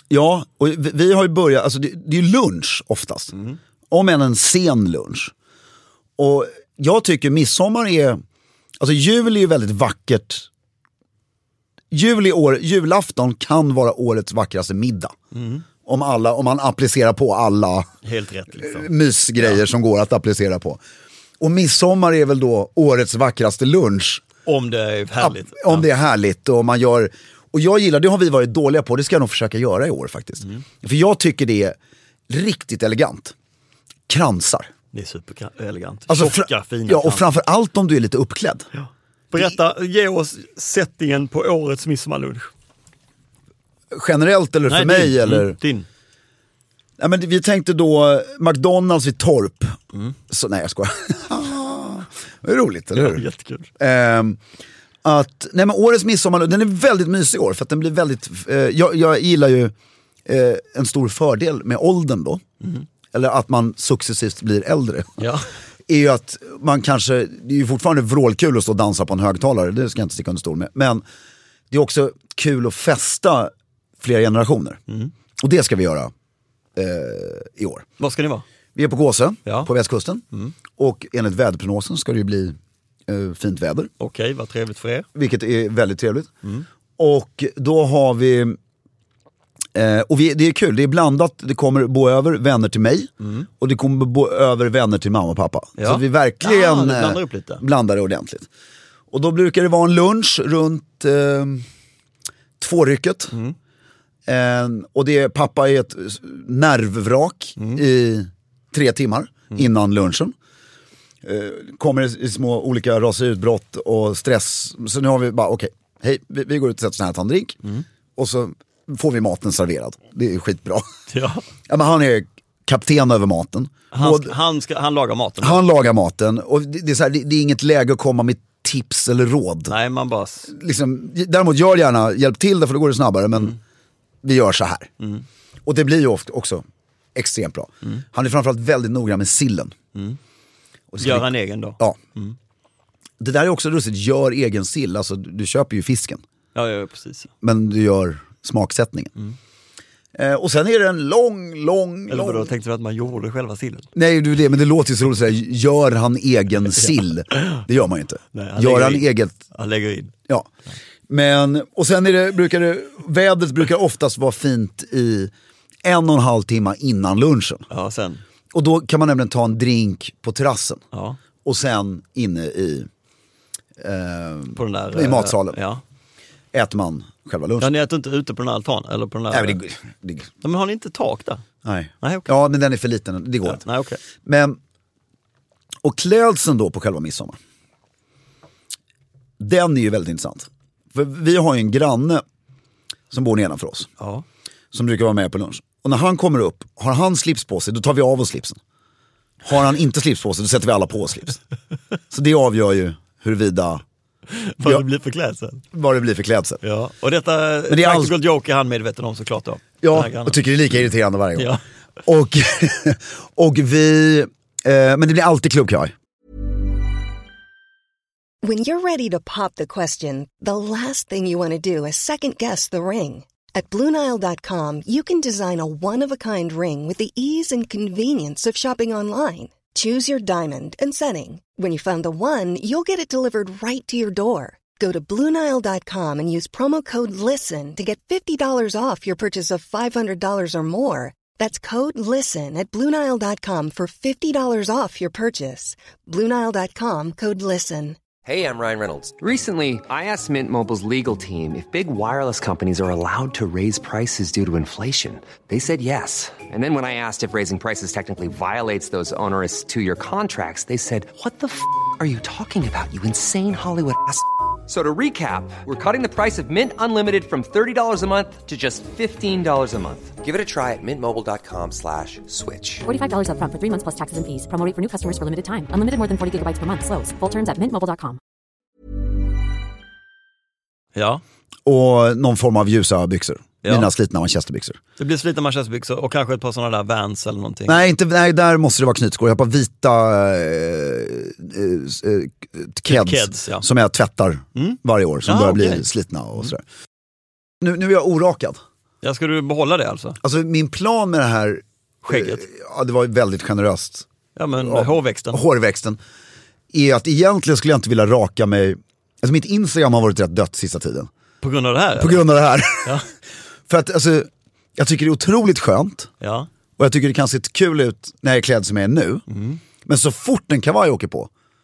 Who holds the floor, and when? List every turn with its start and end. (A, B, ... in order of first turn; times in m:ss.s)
0:00.1-0:03.3 A
0:03.9-0:05.3 A
0:06.2-0:08.2 A
0:08.8-0:10.5 A
0:11.9-0:15.2 A
0:15.3-0:15.6 B
0:15.8-0:17.9 A
0:18.0-0:18.9 B
0:18.6-0:20.8 A
0:21.4-0:24.2 A
0:24.4-0:25.9 B
0:25.2-0:31.8 A
0:32.3-0:33.3 A
0:34.1-0:34.7 A
0:34.9-0:37.2 B
0:36.1-0:38.7 A
0:38.7-0:42.5 B
0:43.9-0:45.6 A
0:44.7-0:45.9 B
0:47.0-0:49.8 A
0:50.3-0:53.2 A
0:53.0-0:53.7 B
0:53.8-0:54.4 A
0:55.0-0:59.7 A
1:00.3-1:02.4 A
1:03.1-1:05.2 A
1:05.2-1:05.5 B
1:05.9-1:11.0 A
1:11.7-1:14.8 A
1:15.4-1:16.1 A
1:16.8-1:17.9 A
1:18.0-1:18.4 B
1:18.8-1:20.2 A
1:20.8-1:22.6 A
1:23.1-1:23.9 A
1:24.0-1:25.1 B
1:25.2-1:26.3 A
1:27.0-1:28.6 A
1:29.8-1:38.5 A
1:33.2-1:33.5 B
1:35.8-1:37.6 B
1:39.1-1:41.6 A
1:42.6-1:43.4 A
1:44.3-1:50.3 A
1:47.6-1:47.8 B
1:51.2-1:57.6 A
1:58.2-2:00.9 A
2:01.1-2:01.4 B
2:01.7-2:04.3 A
2:03.9-2:05.6 B
2:05.4-2:09.7 A
2:09.7-2:10.5 B
2:10.5-2:13.6 A
2:14.2-2:14.9 A
2:15.7-2:16.6 A
2:17.2-2:19.8 A
2:20.9-2:22.0 A
2:21.0-2:22.4 B
2:23.2-2:26.2 A
2:26.6-2:27.3 B
2:27.4-2:29.1 A
2:30.2-2:32.5 A
2:32.1-2:33.9 B
2:34.0-2:39.4 A
2:36.8-2:37.6 B
2:38.3-2:40.1 B
2:41.1-2:45.3 A
2:45.8-2:47.7 A
2:47.7-2:48.2 B
2:48.5-2:50.8 A
2:50.9-2:51.2 B
2:51.4-2:52.9 A
2:53.8-2:55.6 A
2:54.5-2:55.8 B
2:56.5-2:57.7 A
2:57.6-2:59.6 B
2:59.3-3:00.3 A
3:00.4-3:01.4 B
3:01.6-3:03.6 A
3:02.0-3:02.3 B
3:03.4-3:04.0 B
3:04.2-3:04.6 A
3:05.8-3:07.4 A
3:09.4-3:12.2 A
3:13.1-3:13.9 A
3:14.0-3:14.2 B
3:14.7-3:18.6 A
3:19.4-3:21.4 A
3:22.1-3:23.8 A
3:24.3-3:25.6 B
3:25.7-3:26.6 A
3:26.6-3:30.4 B
3:27.7-3:28.2 A
3:29.8-3:35.9 A
3:31.4-3:31.6 B
3:38.4-4:08.0 C
4:08.3-4:32.8 D
4:32.8-4:38.2 E
4:41.0-4:41.2 B
4:41.7-4:44.8 A
4:45.0-4:47.8 B
4:47.7-4:56.6 A
4:52.9-4:53.6 B
4:54.6-4:55.8 B
4:57.6-4:58.6 A
4:59.0-5:00.2 B
5:00.2-5:04.1 A
5:02.0-5:02.4 B
5:04.4-5:05.4 B
5:04.6-5:06.0 A
5:06.7-5:11.1 A
5:11.4-5:12.3 B
5:12.0-5:13.0 A
5:13.7-5:16.1 A
5:16.2-5:16.5 B
5:16.8-5:19.2 A
5:19.3-5:19.6 B
5:19.8-5:21.3 A